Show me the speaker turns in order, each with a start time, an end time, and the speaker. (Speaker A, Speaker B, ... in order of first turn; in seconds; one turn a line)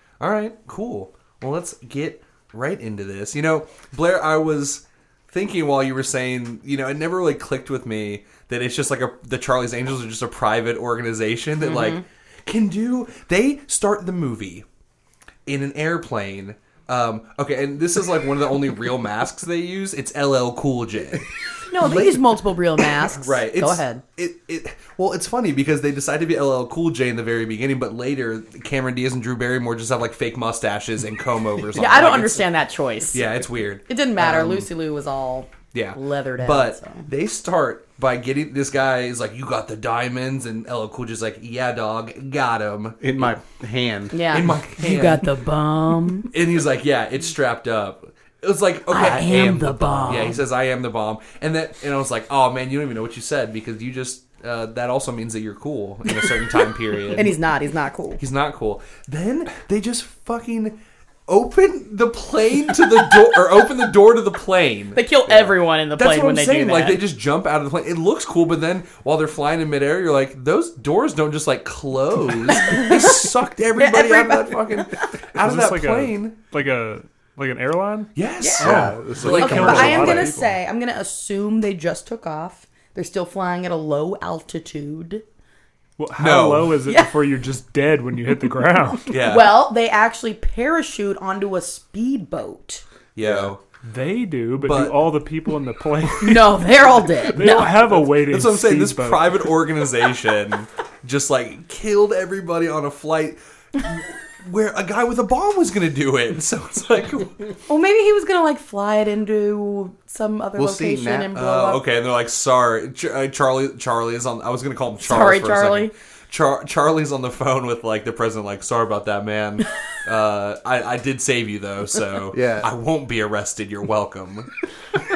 Speaker A: 0.2-14.7
Speaker B: 11.6-12.0
Speaker A: 15.5-21.3
Speaker B: 21.7-24.0
Speaker A: 21.8-32.4
Speaker B: 31.7-33.3
Speaker A: 33.1-34.7
Speaker B: 33.9-37.0
Speaker A: 35.7-43.4
Speaker C: 43.0-44.6
Speaker B: 44.1-46.3
Speaker A: 44.3-45.3
Speaker A: 46.3-57.4
Speaker B: 48.9-50.4
Speaker C: 49.0-50.3
Speaker B: 57.1-58.2
Speaker A: 58.2-76.4
Speaker B: 64.9-67.0
Speaker B: 72.5-75.1
Speaker D: 75.4-80.5
Speaker A: 78.2-80.2
Speaker B: 78.4-78.7
Speaker C: 78.6-80.3
Speaker B: 79.3-85.2
Speaker D: 86.0-89.1
Speaker A: 86.2-86.8
Speaker B: 86.8-87.1
Speaker A: 89.1-89.5
Speaker B: 89.2-92.8
Speaker A: 93.2-93.6
Speaker C: 93.2-93.5
Speaker D: 93.8-99.5
Speaker A: 94.6-95.0
Speaker B: 96.2-97.8
Speaker A: 97.5-107.5
Speaker B: 107.7-111.8
Speaker C: 110.6-111.3
Speaker A: 111.3-124.5
Speaker B: 115.0-115.9
Speaker C: 122.3-122.7